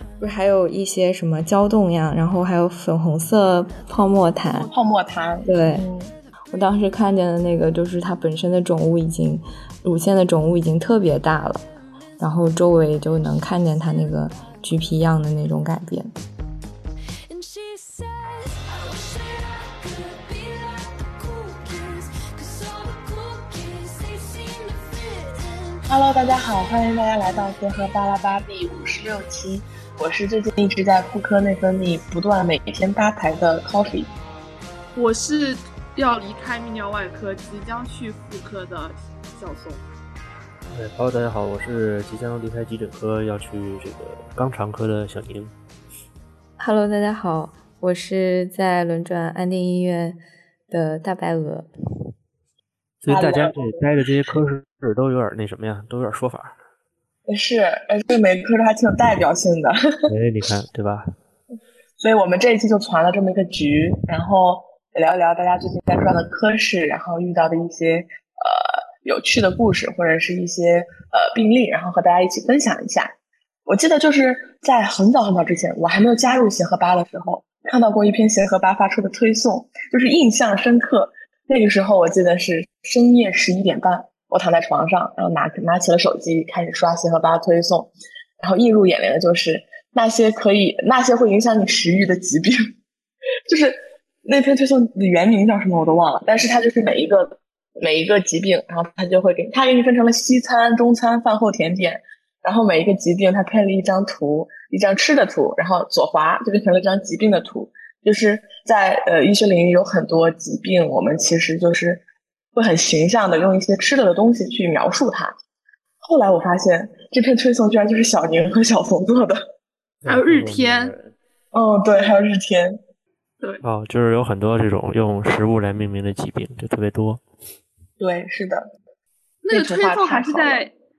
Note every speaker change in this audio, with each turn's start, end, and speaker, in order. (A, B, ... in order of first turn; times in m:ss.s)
0:00.2-0:04.7 A
0:04.7-0:06.1 B
0:05.4-0:05.9 A
0:06.5-0:16.1 A
0:19.9-0:24.7 C
0:25.8-0:34.1 B
0:35.0-0:39.8 D
0:40.7-0:45.5 E
0:46.6-0:51.7 A
0:53.0-0:56.6 E
0:53.1-0:53.6 B
0:57.3-1:00.1 B
1:00.1-1:01.1 E
1:02.0-1:13.2 B
1:13.7-1:32.6 B
1:33.5-1:52.0 B
1:52.5-1:55.3 B
1:56.0-1:59.4 B
2:00.0-2:01.2 E
2:00.1-2:00.9 D
2:01.5-2:02.8 B
2:03.6-2:07.2 E
2:08.0-2:08.7 B
2:09.4-2:10.7 D
2:09.5-2:10.6 B